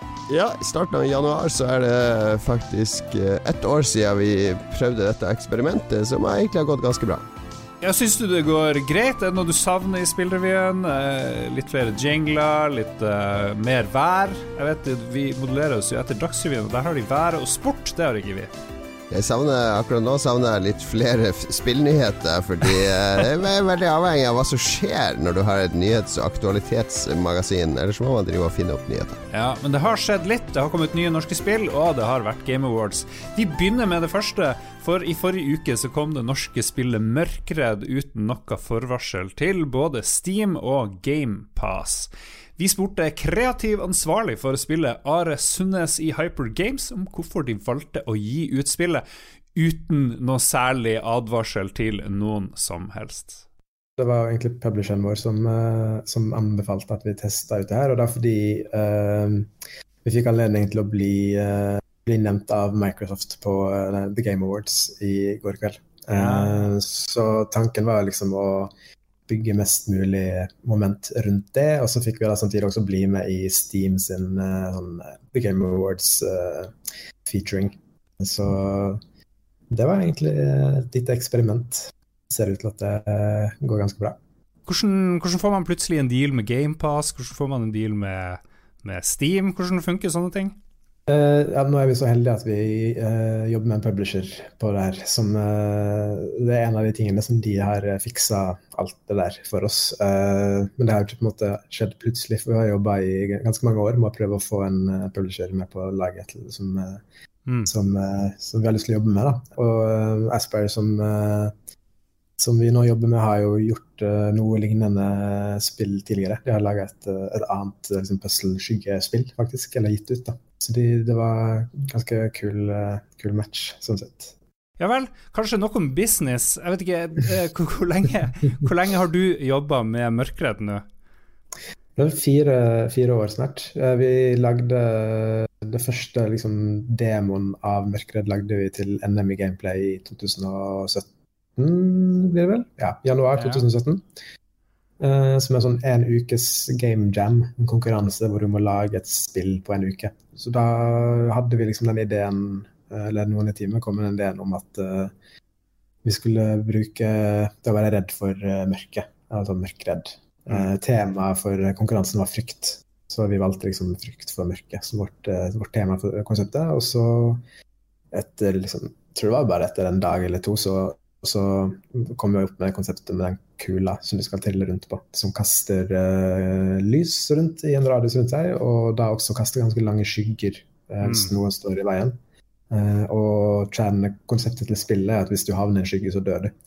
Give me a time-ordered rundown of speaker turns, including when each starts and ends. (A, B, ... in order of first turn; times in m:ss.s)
0:00.3-0:07.2 A
0:07.8-0:18.5 B
0:19.1-0:29.2 A
0:29.3-0:49.0 B
0:49.5-0:53.4 B
0:54.0-0:59.5 C
1:00.0-1:08.7 C
1:06.1-1:06.7 B
1:09.3-1:16.7 C
1:17.2-1:19.0 C
1:19.7-1:24.2 C
1:24.7-1:30.6 B
1:31.1-1:47.0 C
1:47.7-1:51.5 C
1:52.4-2:04.3 C
2:04.8-2:10.8 B
2:12.0-2:24.0 C
2:23.4-2:23.6 B
2:25.0-2:35.1 C
2:36.0-2:47.4 C
2:48.1-3:02.2 C
3:01.0-3:01.3 B
3:02.7-3:06.5 C